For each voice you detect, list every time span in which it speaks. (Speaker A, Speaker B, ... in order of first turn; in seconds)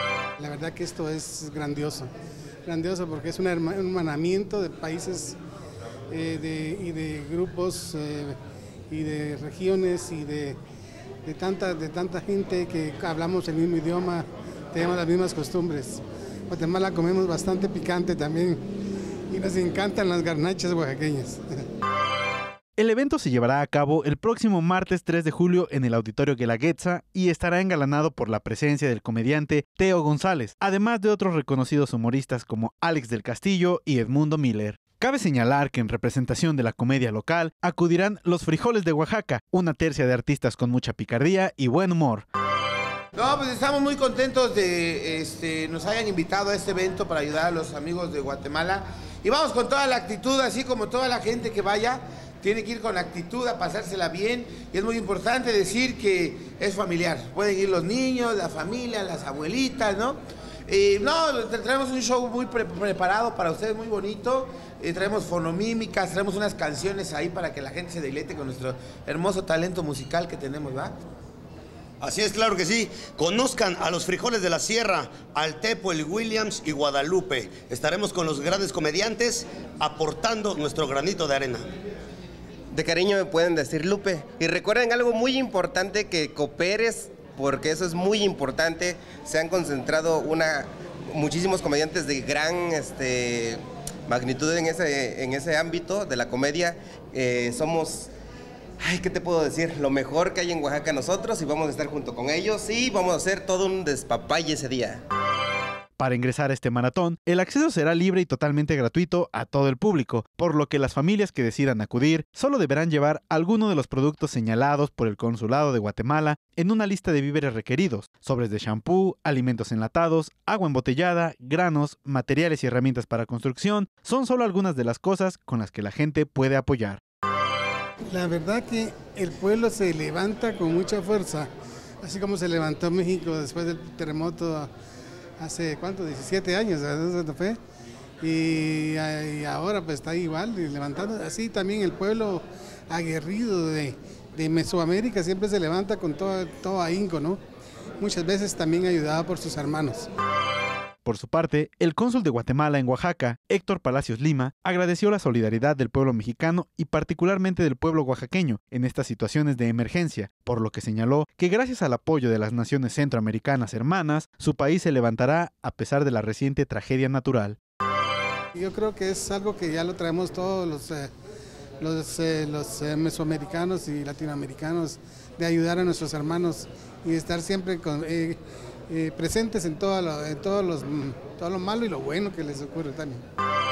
Speaker A: 0.4-2.1, 2.6-5.4, 6.1-8.4, 8.9-10.6, 11.2-18.6, 19.3-21.4, 128.1-131.5, 132.0-134.7, 135.4-137.6, 138.2-147.4, 148.0-150.1, 168.5-171.1, 171.8-178.4, 178.9-183.2
Speaker B: 22.8-42.2, 106.0-127.0, 151.0-167.6
Speaker C: 43.1-70.9
Speaker D: 72.0-81.7
Speaker E: 82.7-98.1, 98.8-105.0